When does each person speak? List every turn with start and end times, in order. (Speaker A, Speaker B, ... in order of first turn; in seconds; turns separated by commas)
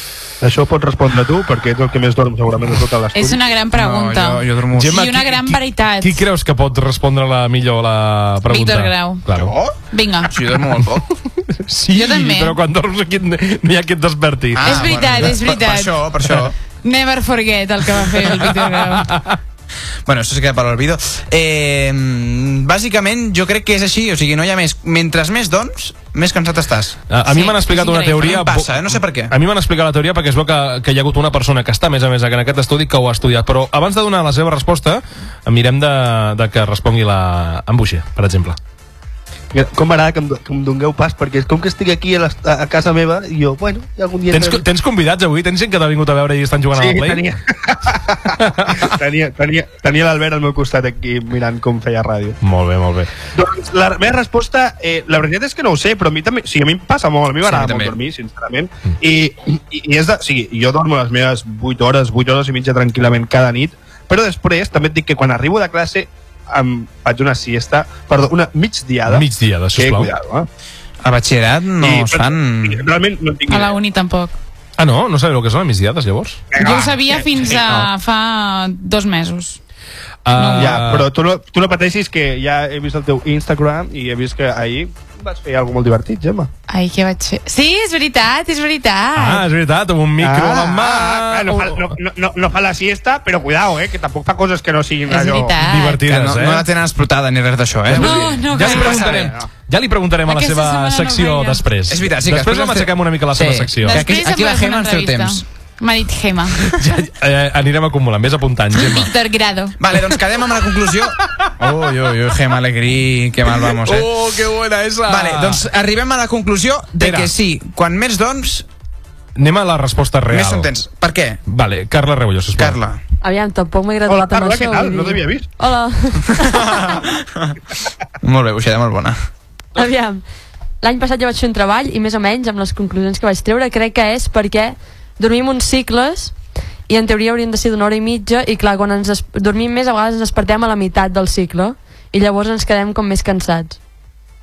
Speaker A: 0.4-3.4, Speaker B: 3.1-6.2, Speaker C: 3.7-5.0, Speaker D: 4.7-9.5, Speaker B: 8.5-9.2, Speaker C: 9.3-11.1, Speaker B: 9.9-10.3, Speaker D: 11.3-15.3, Speaker B: 11.9-12.6, Speaker C: 14.5-16.6, Speaker B: 14.6-19.1, Speaker D: 18.0-19.4, Speaker C: 20.1-27.0, Speaker D: 27.1-38.6, Speaker B: 27.2-28.4, Speaker C: 28.2-29.3, Speaker A: 39.5-44.6, Speaker D: 44.3-47.2, Speaker A: 46.7-52.4, Speaker D: 48.4-49.0, Speaker D: 52.4-53.1, Speaker A: 53.3-70.5, Speaker C: 57.4-57.9, Speaker D: 69.1-70.1, Speaker C: 71.0-72.8, Speaker A: 71.8-73.8, Speaker B: 73.5-74.3, Speaker D: 74.8-76.4, Speaker A: 76.5-77.9, Speaker B: 76.6-79.6, Speaker D: 80.2-81.1, Speaker B: 80.3-80.8, Speaker A: 80.5-86.5, Speaker B: 86.7-89.5, Speaker D: 89.1-91.9, Speaker A: 90.2-95.6, Speaker B: 95.1-96.0, Speaker D: 95.6-96.7, Speaker C: 96.0-99.3, Speaker D: 97.9-104.1, Speaker B: 97.9-99.2, Speaker A: 98.0-99.5, Speaker B: 100.3-101.6, Speaker C: 101.9-105.4, Speaker B: 103.8-106.8, Speaker D: 106.7-109.1, Speaker B: 108.7-109.8, Speaker C: 109.8-114.1, Speaker D: 111.1-111.5, Speaker D: 113.5-115.7, Speaker C: 115.1-118.7, Speaker D: 117.0-117.3, Speaker D: 119.3-120.7, Speaker C: 120.3-121.4, Speaker D: 121.5-122.8, Speaker C: 122.6-123.0, Speaker E: 123.2-126.9, Speaker A: 124.0-125.5, Speaker C: 126.4-127.6, Speaker C: 128.2-129.2, Speaker E: 129.8-130.2, Speaker E: 130.8-136.3, Speaker E: 136.9-143.8